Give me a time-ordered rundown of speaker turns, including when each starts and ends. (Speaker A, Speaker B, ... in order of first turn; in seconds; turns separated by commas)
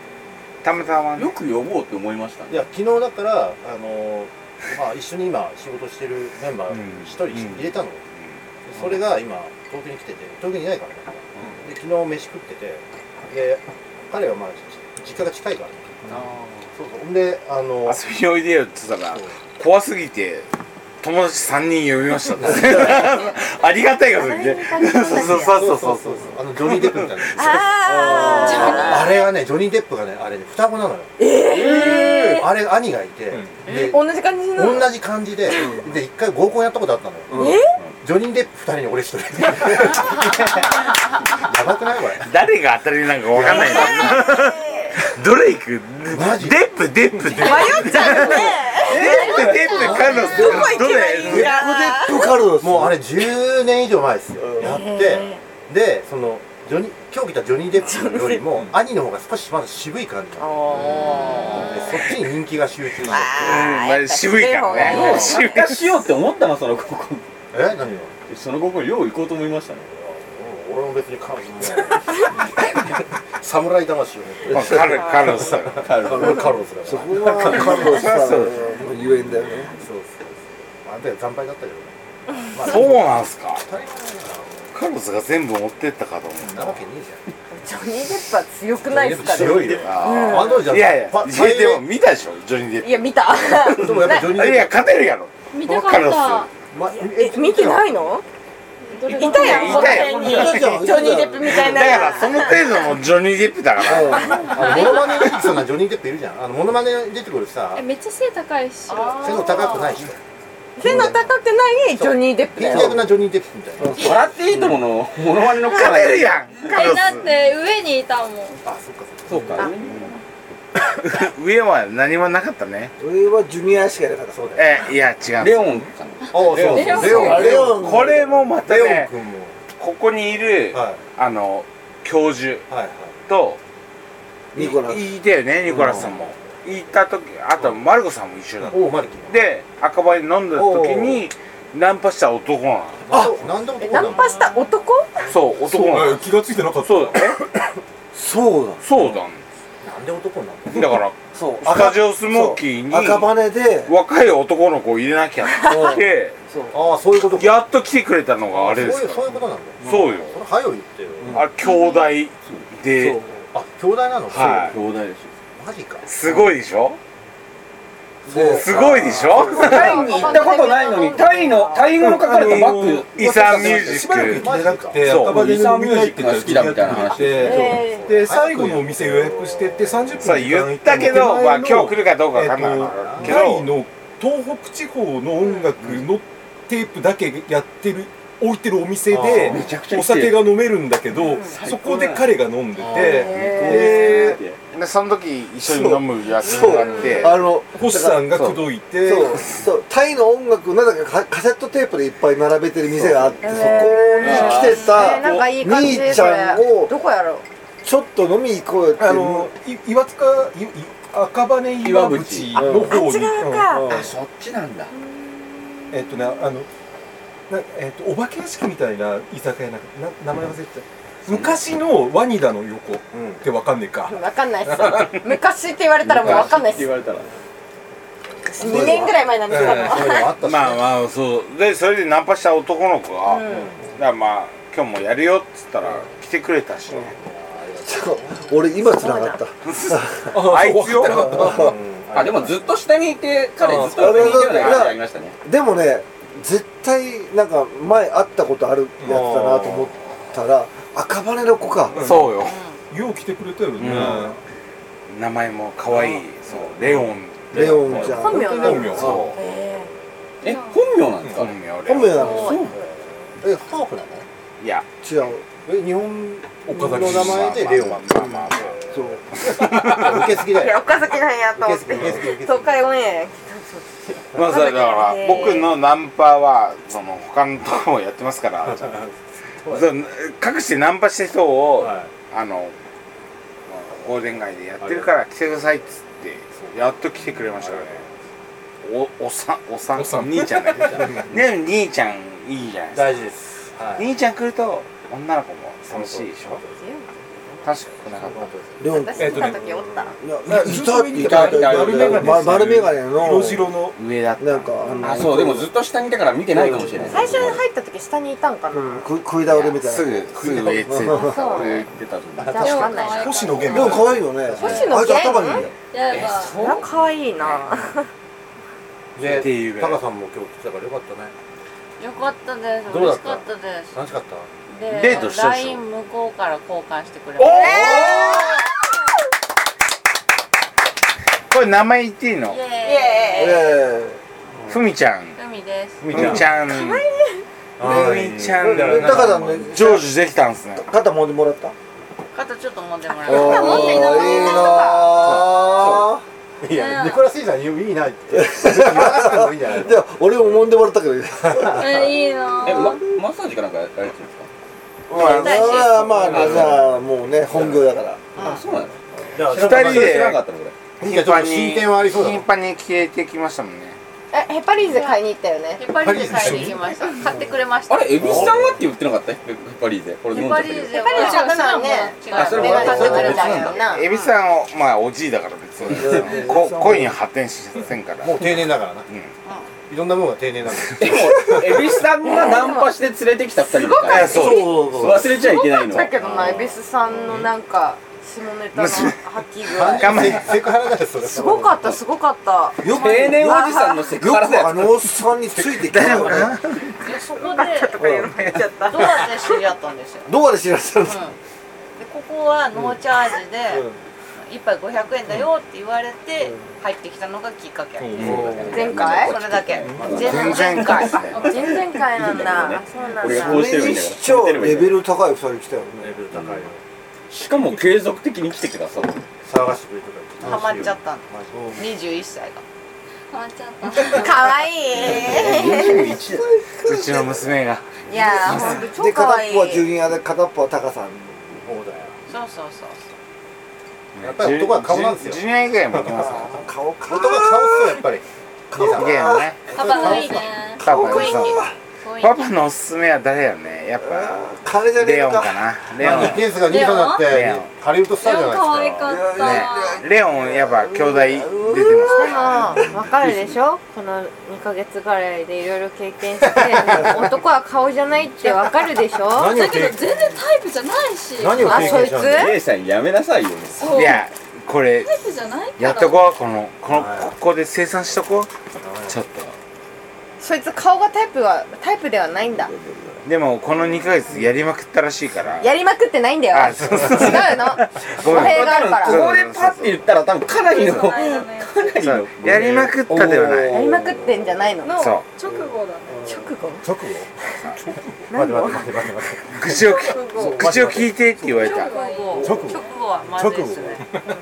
Speaker A: 0.6-1.4, Speaker B: 1.2-2.7, Speaker C: 2.5-8.0, Speaker A: 6.7-8.3, Speaker C: 8.6-18.0, Speaker A: 16.3-16.6, Speaker A: 17.9-20.5, Speaker C: 19.1-19.4, Speaker A: 21.0-27.6, Speaker C: 22.4-23.2, Speaker D: 22.8-23.3, Speaker D: 24.1-25.6, Speaker C: 25.2-31.1, Speaker D: 27.4-29.2, Speaker E: 27.9-28.6, Speaker F: 28.1-28.6, Speaker D: 31.2-32.5, Speaker B: 31.6-32.1, Speaker C: 31.6-40.8, Speaker F: 33.3-33.6, Speaker D: 33.6-34.9, Speaker F: 37.3-37.6, Speaker D: 37.3-37.8, Speaker C: 41.4-42.4, Speaker A: 42.2-51.6, Speaker C: 43.3-44.2, Speaker D: 43.4-45.0, Speaker C: 46.1-46.6, Speaker C: 47.2-50.9, Speaker D: 47.4-52.3, Speaker B: 48.8-49.9, Speaker E: 50.1-53.0, Speaker C: 52.6-63.7, Speaker D: 54.6-55.4, Speaker D: 57.8-58.4, Speaker D: 60.4-62.1, Speaker D: 63.0-65.5, Speaker A: 63.4-66.0, Speaker B: 64.7-67.2, Speaker C: 67.5-68.1, Speaker B: 68.3-69.9, Speaker C: 69.9-72.8, Speaker C: 73.4-78.1, Speaker A: 74.5-76.1, Speaker B: 75.8-76.5, Speaker E: 76.8-79.7, Speaker A: 77.7-78.6, Speaker C: 78.7-84.8, Speaker A: 82.6-83.6, Speaker A: 84.7-86.8, Speaker C: 86.4-87.2, Speaker D: 87.5-90.7, Speaker C: 88.9-91.9, Speaker B: 88.9-89.8, Speaker A: 89.7-96.5, Speaker D: 92.8-94.3, Speaker C: 93.7-95.0, Speaker G: 95.5-96.5, Speaker C: 96.7-98.0, Speaker D: 96.9-98.2, Speaker G: 98.9-100.4, Speaker D: 99.0-102.7, Speaker A: 99.2-104.5, Speaker B: 99.7-100.8, Speaker E: 100.3-101.7, Speaker C: 103.8-107.8, Speaker E: 103.9-104.4, Speaker G: 107.7-109.8, Speaker D: 108.9-109.8, Speaker H: 108.9-109.9, Speaker C: 109.1-110.2, Speaker D: 110.8-113.0, Speaker C: 110.8-111.2, Speaker C: 111.9-114.4, Speaker B: 113.9-116.7, Speaker A: 115.6-117.3, Speaker G: 116.6-118.6, Speaker C: 118.6-119.7, Speaker B: 119.3-120.1, Speaker A: 121.0-122.9, Speaker E: 123.0-124.4, Speaker C: 124.3-124.9, Speaker A: 124.5-125.8, Speaker B: 125.4-127.5, Speaker G: 126.2-127.6, Speaker C: 126.3-129.6, Speaker E: 126.9-128.3, Speaker A: 127.2-129.1, Speaker A: 129.8-132.7, Speaker C: 130.7-131.0, Speaker C: 132.7-133.2, Speaker A: 133.3-133.6, Speaker E: 134.5-135.1, Speaker A: 134.6-143.1, Speaker C: 135.7-136.3, Speaker C: 138.7-139.4, Speaker E: 140.5-141.2, Speaker C: 143.1-144.5, Speaker D: 143.8-145.1, Speaker H: 144.1-144.7, Speaker A: 145.2-146.2, Speaker F: 145.6-147.4, Speaker A: 146.8-147.4, Speaker E: 148.1-148.8, Speaker A: 148.8-149.4, Speaker C: 149.8-151.0, Speaker A: 150.7-156.3, Speaker E: 151.3-153.9, Speaker E: 155.7-156.7, Speaker C: 156.7-157.6, Speaker A: 157.3-160.4, Speaker C: 158.5-161.4, Speaker A: 161.3-163.2, Speaker G: 161.6-162.1, Speaker E: 163.0-163.3, Speaker C: 163.5-164.8, Speaker A: 164.3-164.8, Speaker B: 164.3-165.3, Speaker C: 165.6-166.1, Speaker A: 166.1-167.0, Speaker C: 168.3-170.3, Speaker E: 168.3-170.1, Speaker A: 168.5-170.1, Speaker D: 169.5-171.9, Speaker B: 169.6-174.0, Speaker F: 169.6-170.2, Speaker F: 171.9-194.4, Speaker A: 172.4-175.4, Speaker C: 174.2-175.3, Speaker B: 175.1-177.7, Speaker C: 177.4-180.2, Speaker D: 177.4-178.1, Speaker A: 180.2-183.7, Speaker C: 182.7-183.4, Speaker C: 189.1-189.7, Speaker B: 189.2-190.5, Speaker B: 191.3-194.6, Speaker C: 192.8-193.2, Speaker D: 193.1-193.9, Speaker E: 193.6-194.3, Speaker A: 194.7-197.4, Speaker E: 195.6-198.4, Speaker D: 196.6-197.3, Speaker F: 197.7-199.5, Speaker A: 198.3-198.6, Speaker E: 199.0-206.9, Speaker A: 199.2-199.7, Speaker D: 203.4-207.4, Speaker B: 204.2-205.5, Speaker E: 207.8-209.5, Speaker F: 209.0-213.7, Speaker B: 211.8-212.7, Speaker E: 212.5-213.0, Speaker D: 212.6-213.9, Speaker E: 213.6-214.1, Speaker B: 213.9-214.9, Speaker D: 214.9-216.4, Speaker F: 215.9-216.7, Speaker F: 217.5-225.1, Speaker B: 221.3-221.6, Speaker C: 223.1-223.4, Speaker D: 224.1-226.9, Speaker B: 226.0-227.3, Speaker D: 228.5-230.3, Speaker C: 228.6-231.0, Speaker E: 228.6-229.2, Speaker A: 230.4-237.1, Speaker D: 233.2-233.7, Speaker C: 233.5-233.9, Speaker C: 237.0-238.4, Speaker E: 237.8-240.3, Speaker D: 238.8-239.4, Speaker A: 239.6-241.5, Speaker F: 240.3-241.8, Speaker E: 241.0-241.8, Speaker C: 241.3-242.8, Speaker B: 242.1-245.3, Speaker F: 243.6-244.4, Speaker E: 243.7-252.0, Speaker A: 244.2-244.9, Speaker F: 249.0-249.9, Speaker C: 249.1-249.4, Speaker F: 251.9-254.4, Speaker A: 251.9-252.6, Speaker H: 252.4-252.8, Speaker A: 253.8-254.3, Speaker C: 253.9-254.2, Speaker A: 255.1-258.1, Speaker F: 256.8-259.4, Speaker E: 257.5-259.0, Speaker C: 257.6-259.3, Speaker D: 258.0-259.9, Speaker A: 259.0-259.4, Speaker B: 260.4-261.6, Speaker G: 260.4-260.9, Speaker F: 261.2-261.5, Speaker A: 261.3-262.4, Speaker E: 261.8-262.6, Speaker B: 262.1-262.8, Speaker H: 262.2-262.7, Speaker C: 262.5-264.3, Speaker A: 264.6-264.8, Speaker E: 265.0-265.4, Speaker C: 265.6-271.0, Speaker F: 266.6-267.5, Speaker A: 266.9-268.8, Speaker E: 268.9-269.2, Speaker A: 269.3-270.3, Speaker D: 270.5-275.7, Speaker C: 271.6-272.8, Speaker A: 274.3-279.0, Speaker C: 278.6-279.9, Speaker A: 279.7-282.7, Speaker C: 281.8-282.1, Speaker A: 283.7-288.0, Speaker C: 284.8-285.1, Speaker C: 286.6-288.2, Speaker A: 288.8-293.1, Speaker F: 289.9-291.3, Speaker C: 292.9-294.1, Speaker A: 293.9-296.6, Speaker C: 295.9-296.7, Speaker D: 296.8-297.1, Speaker A: 297.6-298.5, Speaker C: 298.0-298.8, Speaker E: 298.8-299.6, Speaker D: 298.8-300.1, Speaker F: 299.2-299.6, Speaker E: 300.2-303.8, Speaker F: 300.4-304.0, Speaker B: 301.1-302.6, Speaker A: 303.9-305.4, Speaker E: 304.4-305.7, Speaker B: 305.0-307.6, Speaker E: 306.5-307.5, Speaker D: 307.1-309.1, Speaker E: 308.7-311.3, Speaker A: 309.8-311.9, Speaker D: 311.1-311.8, Speaker B: 311.3-313.0, Speaker D: 312.5-313.4, Speaker G: 312.5-315.4, Speaker F: 313.1-314.3, Speaker E: 313.7-315.7, Speaker D: 314.6-315.7, Speaker B: 314.6-314.9, Speaker G: 315.9-316.8, Speaker B: 316.1-316.8, Speaker D: 316.5-318.1, Speaker A: 317.4-317.7, Speaker C: 319.1-321.3, Speaker A: 319.2-320.0, Speaker H: 322.0-323.9, Speaker C: 322.9-324.5, Speaker H: 324.7-328.4, Speaker A: 324.9-325.8, Speaker A: 327.4-328.4, Speaker D: 327.5-328.9, Speaker A: 331.5-332.6, Speaker H: 332.4-333.8, Speaker D: 332.8-333.7, Speaker E: 333.4-334.2, Speaker C: 334.5-334.8, Speaker A: 334.7-335.4, Speaker H: 335.4-336.2, Speaker C: 336.0-336.5, Speaker A: 336.1-337.0, Speaker D: 336.7-337.4, Speaker C: 337.8-340.0, Speaker A: 337.8-340.9, Speaker E: 337.8-340.1, Speaker E: 340.8-341.7, Speaker H: 342.3-344.1, Speaker G: 343.2-344.9, Speaker E: 343.2-346.2, Speaker D: 343.3-345.2, Speaker C: 345.2-346.0, Speaker B: 345.7-346.1, Speaker C: 346.6-350.0, Speaker G: 346.7-347.2, Speaker E: 348.3-352.1, Speaker C: 351.4-351.8, Speaker G: 351.7-353.0, Speaker B: 352.6-354.5, Speaker E: 355.1-358.2, Speaker A: 355.1-356.6, Speaker H: 355.3-356.4, Speaker B: 356.2-356.8, Speaker C: 356.2-356.8, Speaker C: 357.5-357.8, Speaker H: 358.3-358.6, Speaker B: 358.4-359.0, Speaker C: 359.3-360.4, Speaker A: 359.4-360.4, Speaker B: 359.6-360.7, Speaker C: 361.0-362.5, Speaker A: 361.0-364.0, Speaker D: 364.3-365.8, Speaker H: 364.8-365.2, Speaker H: 365.8-368.6, Speaker C: 365.9-366.8, Speaker F: 366.4-366.7, Speaker B: 367.9-371.1, Speaker C: 368.2-368.8, Speaker H: 370.3-374.3, Speaker D: 370.9-374.1, Speaker G: 370.9-372.8, Speaker B: 372.3-373.8, Speaker C: 372.6-373.6, Speaker A: 373.8-379.3, Speaker E: 375.9-377.1, Speaker C: 378.2-379.1, Speaker C: 379.9-382.0, Speaker B: 381.0-386.7, Speaker D: 382.2-382.9, Speaker D: 383.8-384.7, Speaker A: 384.0-384.9, Speaker E: 384.3-385.4, Speaker D: 385.3-390.4, Speaker A: 388.7-389.2, Speaker C: 389.6-392.0, Speaker A: 389.9-390.6, Speaker D: 391.2-394.1, Speaker E: 392.8-396.6, Speaker B: 392.8-395.0, Speaker A: 395.9-397.0, Speaker C: 396.0-396.3, Speaker H: 397.0-398.0, Speaker D: 397.4-399.6, Speaker E: 398.0-398.3, Speaker H: 398.8-400.3, Speaker E: 400.2-401.2, Speaker H: 401.0-401.4, Speaker H: 402.0-411.4, Speaker E: 403.7-404.0, Speaker F: 408.0-408.7, Speaker B: 408.1-415.0, Speaker A: 408.2-408.5, Speaker D: 408.7-409.4, Speaker F: 409.8-410.1, Speaker A: 410.1-411.5, Speaker D: 410.1-410.5, Speaker G: 411.3-411.8, Speaker D: 411.4-413.7, Speaker E: 413.3-416.2, Speaker C: 416.0-416.8, Speaker B: 416.3-416.7, Speaker B: 417.3-419.2, Speaker C: 419.4-421.9, Speaker H: 420.4-422.6, Speaker G: 423.3-424.5, Speaker D: 424.1-426.1, Speaker B: 424.9-426.4, Speaker E: 425.1-427.5, Speaker A: 426.8-428.8, Speaker D: 428.1-429.9, Speaker E: 428.1-431.6, Speaker C: 431.6-432.2, Speaker H: 432.3-433.1, Speaker A: 434.1-436.7, Speaker C: 434.2-436.5, Speaker E: 436.2-438.0, Speaker C: 437.1-440.6, Speaker E: 438.7-441.7, Speaker A: 438.9-439.8, Speaker G: 439.7-440.8, Speaker A: 440.8-441.6, Speaker H: 441.0-442.5, Speaker A: 442.2-444.4, Speaker E: 444.0-446.4, Speaker A: 445.0-447.7, Speaker C: 446.0-449.3, Speaker G: 446.6-447.4, Speaker G: 448.2-450.1, Speaker E: 449.0-452.3, Speaker A: 449.3-452.5, Speaker D: 452.1-459.6, Speaker C: 456.7-457.2, Speaker C: 459.3-460.4, Speaker G: 459.4-462.1, Speaker C: 461.4-462.6, Speaker D: 461.6-462.6, Speaker B: 462.2-464.0, Speaker G: 463.8-464.2, Speaker A: 463.9-465.1, Speaker G: 465.0-466.2, Speaker A: 465.8-468.5, Speaker C: 466.9-467.3, Speaker C: 468.8-469.2, Speaker A: 469.1-469.6, Speaker D: 470.4-472.7, Speaker A: 473.2-475.7, Speaker D: 475.6-479.2, Speaker A: 476.5-480.1, Speaker B: 478.2-482.9, Speaker G: 480.5-481.9, Speaker A: 482.0-483.9, Speaker E: 483.1-484.5, Speaker D: 483.7-485.0, Speaker G: 484.8-486.2, Speaker A: 484.9-485.2, Speaker D: 486.2-486.9, Speaker C: 486.8-489.8, Speaker D: 488.3-488.9, Speaker A: 489.5-491.9, Speaker G: 489.8-490.5, Speaker C: 490.3-491.1, Speaker E: 490.4-491.0, Speaker G: 491.5-493.0, Speaker H: 491.6-494.1, Speaker C: 492.4-494.0